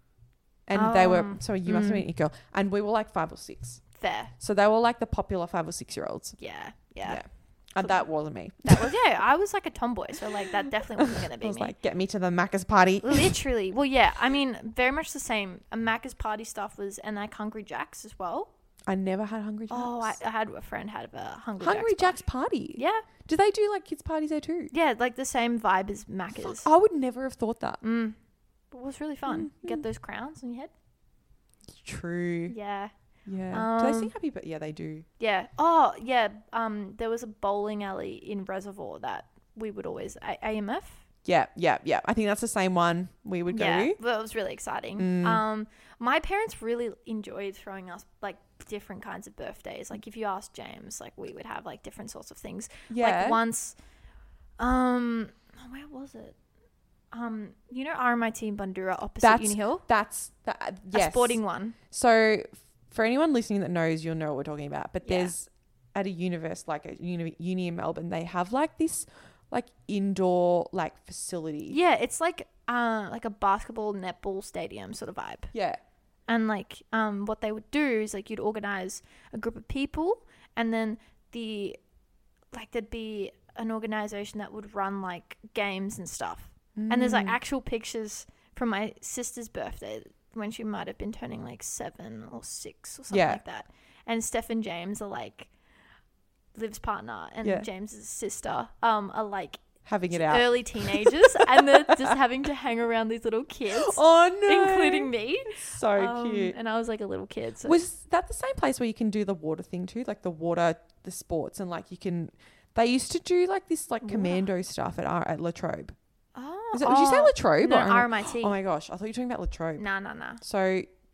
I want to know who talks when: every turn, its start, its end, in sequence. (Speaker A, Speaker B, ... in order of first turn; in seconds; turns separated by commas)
Speaker A: 0.7-3.8, Speaker B: 0.7-2.0, Speaker B: 3.9-4.3, Speaker A: 4.4-6.4, Speaker B: 6.4-7.2, Speaker A: 7.0-9.0, Speaker B: 8.6-11.7, Speaker A: 11.0-13.4, Speaker B: 13.0-18.5, Speaker A: 18.9-20.1, Speaker B: 19.7-22.2, Speaker A: 21.6-24.7, Speaker B: 22.8-23.1, Speaker B: 24.7-26.6, Speaker A: 26.3-27.8, Speaker B: 27.8-28.2, Speaker B: 28.7-30.7, Speaker A: 29.3-29.8, Speaker A: 31.7-32.5, Speaker B: 32.5-32.9, Speaker A: 33.2-35.0, Speaker B: 33.5-34.1, Speaker B: 35.2-41.0, Speaker A: 41.2-44.0, Speaker B: 43.5-53.8, Speaker A: 45.0-45.4, Speaker A: 52.9-53.4, Speaker B: 54.6-56.4, Speaker B: 57.1-59.9, Speaker A: 59.2-71.8, Speaker B: 60.9-61.8, Speaker B: 65.0-65.3, Speaker B: 71.7-75.5, Speaker A: 75.5-75.8, Speaker B: 76.3-81.8, Speaker B: 82.5-95.5, Speaker A: 86.8-87.4, Speaker A: 93.1-93.4, Speaker B: 96.5-107.8, Speaker A: 97.4-97.7, Speaker A: 99.8-102.2, Speaker A: 103.7-106.5, Speaker A: 107.6-115.9, Speaker B: 114.0-114.5, Speaker B: 116.3-118.6, Speaker A: 116.7-119.8, Speaker B: 119.8-120.4, Speaker A: 120.4-120.9